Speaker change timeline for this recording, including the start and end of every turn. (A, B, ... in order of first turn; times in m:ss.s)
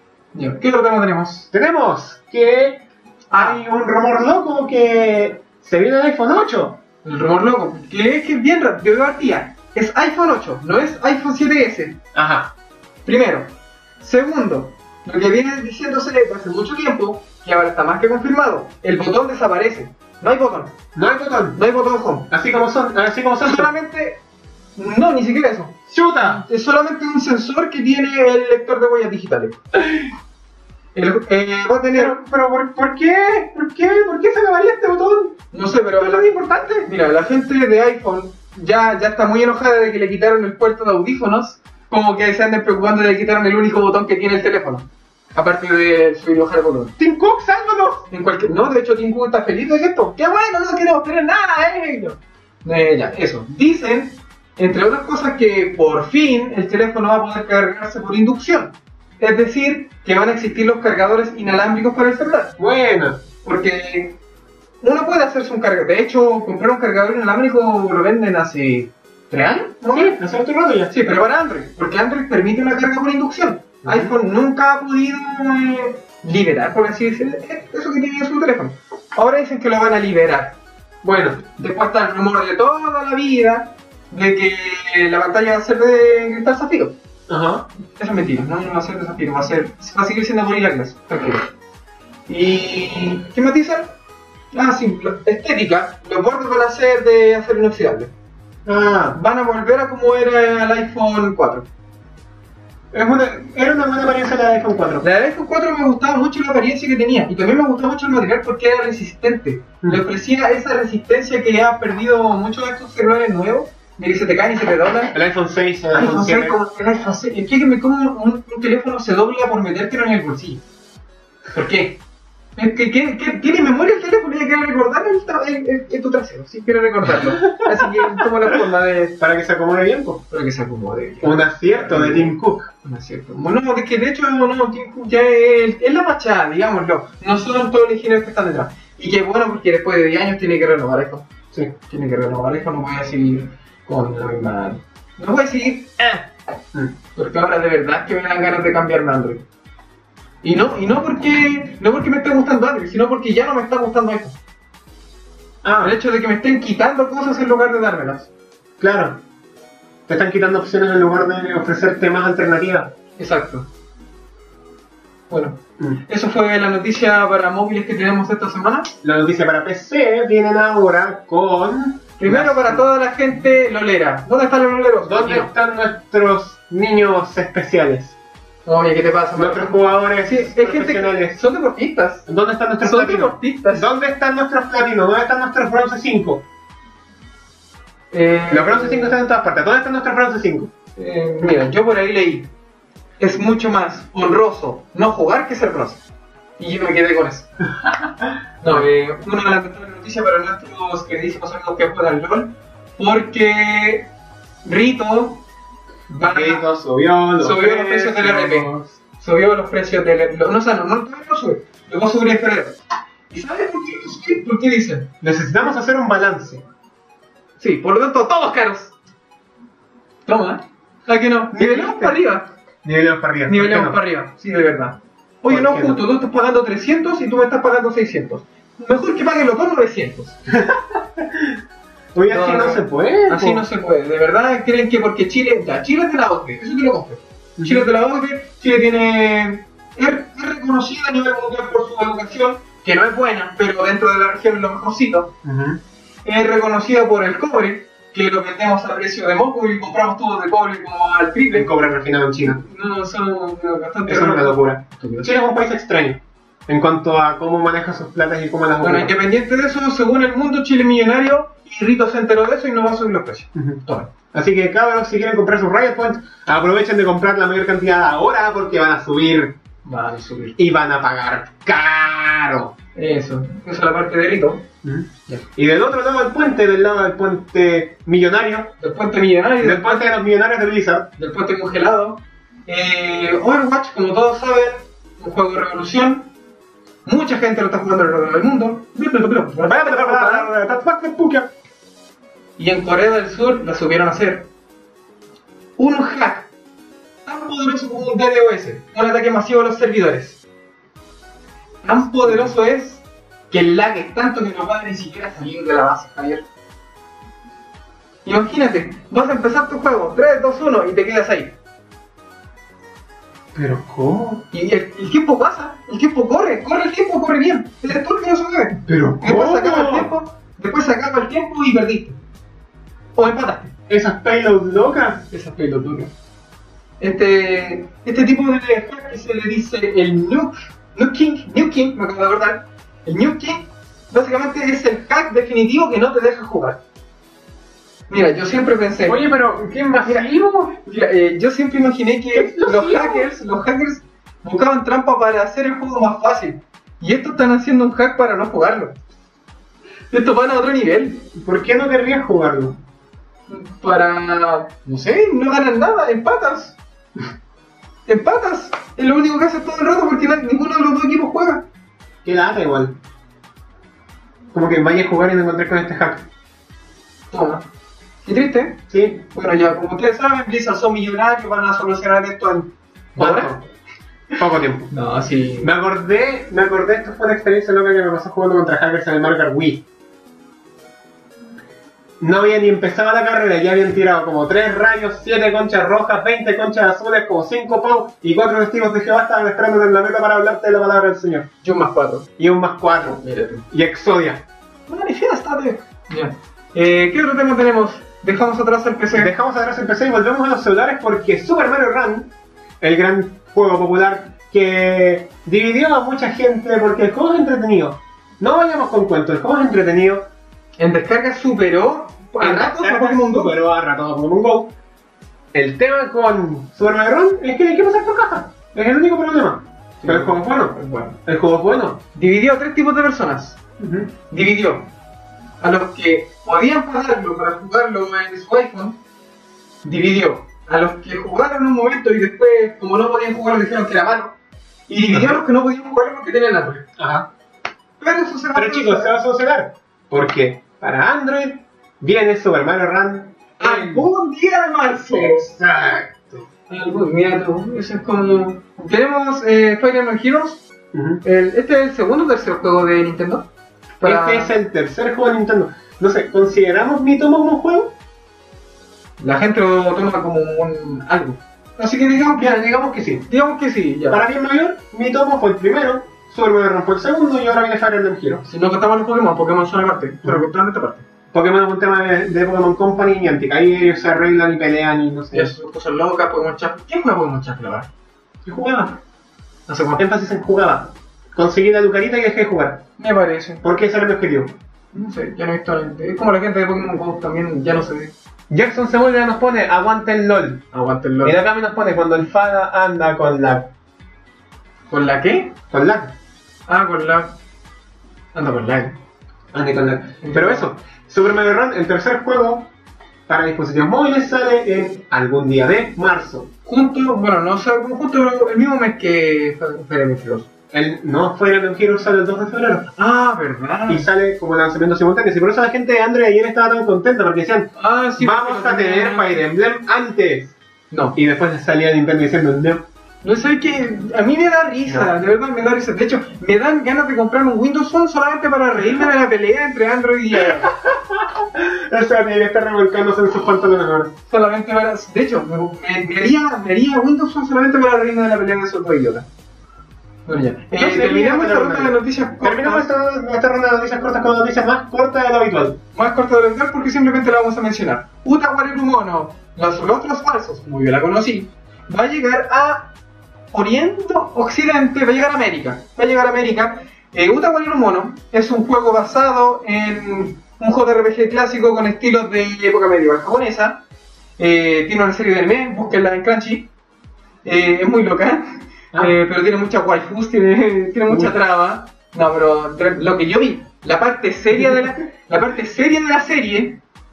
0:00.3-0:01.5 A
0:01.5-0:06.8 B
0:03.3-0:03.6 A
0:07.0-0:12.0 A
0:12.1-0:12.5 B
0:13.0-0:20.8 A
0:21.0-0:21.6 B
0:21.6-0:22.3 A
0:22.3-0:23.7 B
0:23.4-0:24.2 A
0:24.8-0:29.6 A
0:25.9-0:26.4 B
0:31.0-0:32.2 A
0:31.9-0:35.4 B
0:35.5-0:47.0 A
0:36.0-0:36.9 B
0:47.0-0:48.1 B
0:48.1-1:02.6 A
1:02.6-1:03.2 B
1:03.4-1:04.2 A
1:04.8-1:10.2 A
1:09.8-1:10.9 B
1:10.9-1:20.6 A
1:13.8-1:14.2 B
1:21.0-1:21.4 B
1:21.4-1:27.0 A
1:27.3-1:27.7 B
1:28.0-1:31.5 A
1:32.3-1:34.0 A
1:34.5-1:38.1 A
1:38.7-1:39.2 B
1:39.1-1:41.7 A
1:42.9-1:45.1 B
1:45.0-1:55.2 A
1:55.1-1:56.6 B
1:55.9-2:00.6 A
2:01.5-2:02.0 A
2:02.6-2:09.2 A
2:07.5-2:08.3 B
2:09.2-2:10.2 B
2:10.3-2:21.3 A
2:11.2-2:12.7 B
2:21.9-2:26.3 A
2:27.2-2:29.4 A
2:30.4-2:34.4 A
2:35.6-2:36.0 B
2:35.8-2:38.3 A
2:38.8-2:39.2 B
2:40.1-2:42.9 B
2:43.2-2:43.7 A
2:45.3-2:49.0 A
2:49.0-2:52.9 B
2:52.2-2:55.5 A
2:55.0-2:58.2 B
2:58.6-3:02.3 A
2:59.4-3:01.4 B
3:02.3-3:06.4 B
3:02.8-3:03.9 A
3:08.1-3:09.2 A
3:08.5-3:10.7 B
3:11.0-3:12.5 A
3:13.2-3:16.0 A
3:16.6-3:17.5 A
3:17.8-3:18.9 B
3:18.6-3:24.1 A
3:24.6-3:25.4 A
3:26.1-3:26.7 A
3:26.2-3:29.0 B
3:27.4-3:32.8 A
3:33.3-3:35.1 A
3:35.2-3:36.6 B
3:37.6-3:38.9 A
3:40.3-3:42.5 A
3:41.5-3:42.2 B
3:42.8-3:44.0 B
3:43.5-3:50.4 A
3:45.5-3:46.1 B
3:50.5-3:51.6 B
3:52.2-3:53.7 B
3:52.3-4:05.3 A
3:57.6-3:57.9 B
4:05.4-4:05.8 B
4:06.2-4:11.7 A
4:11.5-4:12.6 B
4:12.4-4:15.4 A
4:14.1-4:19.2 B
4:18.8-4:24.1 A
4:23.6-4:23.8 B
4:24.3-4:29.6 B
4:29.8-4:30.6 A
4:30.6-4:32.8 B
4:33.0-4:34.7 A
4:34.8-4:38.7 B
4:38.8-4:40.1 A
4:39.6-4:41.1 B
4:41.2-4:46.3 A
4:47.0-4:50.5 A
4:49.6-4:51.5 B
4:52.6-4:54.5 A
4:55.8-4:56.5 A
4:57.3-5:00.4 A
5:01.8-5:06.5 A
5:08.2-5:11.6 A
5:13.5-5:14.5 B
5:14.5-5:22.2 A
5:18.8-5:20.1 B
5:23.2-5:23.7 A
5:23.9-5:25.3 B
5:25.3-5:26.1 A
5:27.0-5:36.8 A
5:38.1-5:39.3 A
5:39.0-5:40.8 B
5:40.0-5:49.0 A
5:42.3-5:43.3 B
5:50.1-5:51.3 A
5:51.4-5:52.8 B
5:53.5-5:56.8 A
5:58.1-6:01.7 A
6:02.2-6:03.0 B
6:04.5-6:06.3 B
6:07.3-6:07.7 A
6:08.2-6:13.6 A
6:08.9-6:09.2 B
6:13.2-6:13.6 B
6:14.4-6:14.9 B
6:14.9-6:15.7 A
6:15.6-6:19.8 B
6:22.2-6:31.5 B
6:31.6-6:32.3 A
6:32.4-6:34.5 B
6:33.1-6:33.7 A
6:34.9-6:39.3 A
6:39.2-6:50.3 B
6:50.8-6:53.6 A
6:52.4-6:54.8 B
6:55.5-7:02.0 B
7:00.0-7:01.2 A
7:02.2-7:03.6 A
7:03.8-7:04.1 B
7:04.3-7:04.9 A
7:05.6-7:09.0 A
7:09.8-7:14.4 A
7:14.9-7:16.9 A
7:15.1-7:15.4 B
7:17.0-7:17.3 B
7:18.0-7:19.2 A
7:18.6-7:24.1 B
7:23.6-7:25.5 A
7:25.1-7:26.5 B
7:26.7-7:30.6 A
7:30.9-7:31.2 B
7:31.2-7:33.5 A
7:34.0-7:34.5 A
7:34.0-7:38.0 B
7:39.2-7:42.6 A
7:42.4-7:43.3 B
7:43.3-7:44.2 A
7:44.1-7:48.5 B
7:48.4-7:51.1 A
7:51.3-7:55.5 B
7:55.3-7:57.9 A
7:58.4-7:59.0 B
7:59.7-8:00.0 A
8:00.0-8:02.8 B
8:03.0-8:03.6 A
8:03.6-8:04.6 B
8:04.9-8:08.1 A
8:08.5-8:10.7 B
8:10.7-8:11.4 A
8:11.2-8:13.7 B
8:14.9-8:15.6 A
8:15.7-8:16.2 B
8:16.7-8:17.4 A
8:18.3-8:19.0 A
8:19.5-8:22.7 B
8:20.2-8:20.7 A
8:23.3-8:26.5 B
8:26.7-8:30.5 A
8:30.7-8:33.0 B
8:33.0-8:34.1 A
8:33.9-8:40.6 B
8:37.8-8:39.5 A
8:40.9-8:41.2 A
8:41.2-8:42.9 B
8:43.2-8:50.8 A
8:44.9-8:45.1 B
8:50.6-8:54.1 B
8:54.3-8:59.3 A
9:00.3-9:02.9 A
9:00.7-9:05.8 B
9:06.0-9:12.9 A
9:13.5-9:23.8 A
9:24.4-9:26.7 A
9:27.4-9:36.8 A
9:31.1-9:31.4 B